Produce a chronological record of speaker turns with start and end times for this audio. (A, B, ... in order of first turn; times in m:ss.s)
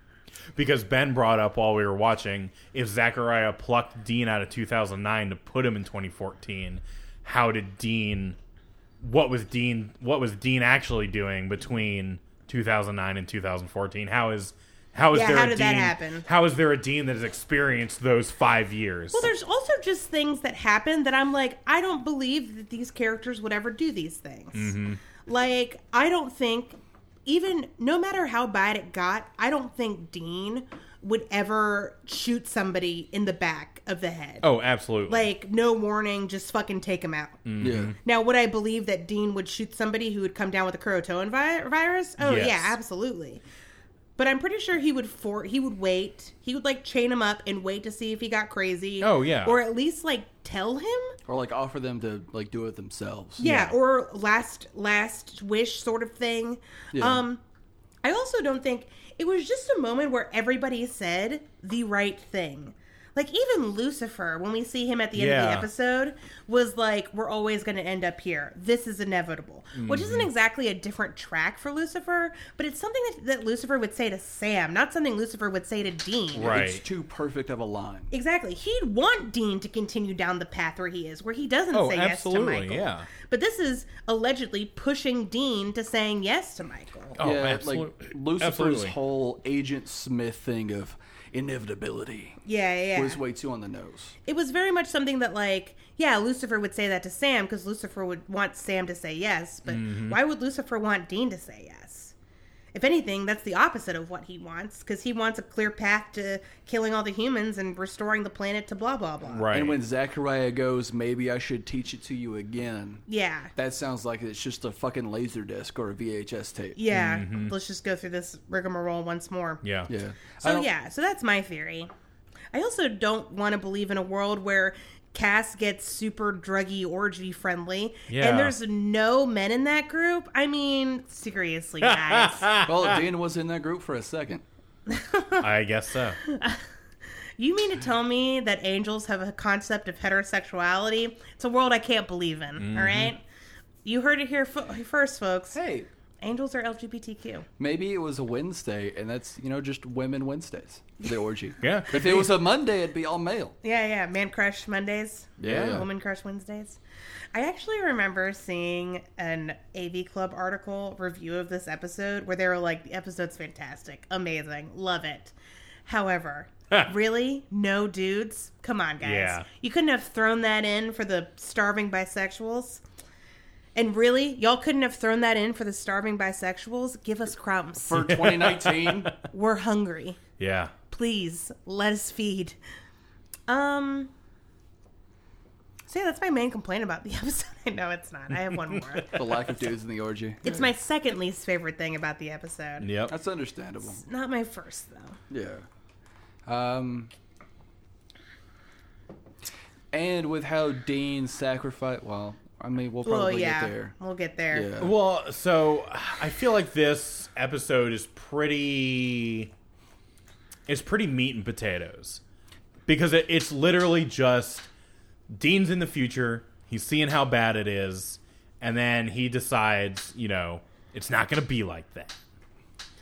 0:00.6-0:08.4 A
0:09.0-0:19.3 A
0:15.1-0:16.3 B
0:19.1-0:34.5 B
0:24.5-0:25.0 A
0:34.4-0:35.3 A
0:35.1-0:37.4 B
0:37.4-0:38.0 A
0:37.6-0:38.0 C
0:38.0-0:43.4 B
0:42.2-0:42.8 A
0:44.2-0:51.2 B
0:49.0-0:49.6 A
0:51.3-0:53.4 C
0:53.4-0:57.4 B
0:53.4-0:53.8 A
0:56.9-0:57.2 C
0:58.0-1:16.6 B
1:05.1-1:05.7 A
1:09.8-1:10.3 A
1:16.4-1:16.8 A
1:16.4-1:18.1 C
1:18.1-1:27.2 B
1:21.7-1:23.1 A
1:27.2-1:29.0 A
1:27.2-1:32.4 C
1:32.4-1:33.2 B
1:33.0-1:34.2 C
1:34.2-1:42.1 B
1:39.7-1:40.2 A
1:42.7-1:49.5 B
1:49.3-1:49.8 A
1:49.5-1:53.0 C
1:53.1-1:53.5 B
1:53.6-1:56.8 C
1:56.8-1:59.6 B
1:56.9-1:57.6 A
1:59.6-1:59.9 A
1:59.9-2:00.7 C
2:00.4-2:01.9 B
2:02.5-2:12.5 B
2:08.1-2:08.6 A
2:11.8-2:13.0 A
2:12.6-2:14.4 C
2:14.9-2:15.5 B
2:15.4-2:16.2 A
2:16.2-2:16.6 B
2:17.4-2:23.2 B
2:22.6-2:23.1 A
2:23.8-2:25.6 B
2:25.5-2:25.9 C
2:26.2-2:27.5 B
2:27.6-2:33.6 C
2:31.6-2:32.4 A
2:33.6-2:36.8 B
2:35.4-2:35.9 C
2:35.4-2:35.9 A
2:37.3-2:45.3 B
2:45.9-2:52.8 B
2:49.0-2:49.5 A
2:53.8-2:58.2 B
2:57.8-2:59.1 C
2:58.0-2:59.1 A
2:59.2-3:00.2 B
3:00.4-3:00.7 A
3:00.9-3:02.6 B
3:03.5-3:04.1 B
3:05.9-3:09.4 B
3:08.7-3:09.1 A
3:09.1-3:10.7 C
3:10.4-3:12.9 B
3:12.8-3:13.2 A
3:13.1-3:14.0 C
3:13.8-3:15.2 B
3:15.3-3:15.6 C
3:16.5-3:17.1 C
3:19.9-3:24.0 C
3:23.0-3:24.7 B
3:24.5-3:24.9 C
3:24.8-3:29.5 A
3:30.7-3:32.2 A
3:32.9-3:34.7 A
3:35.3-3:42.2 A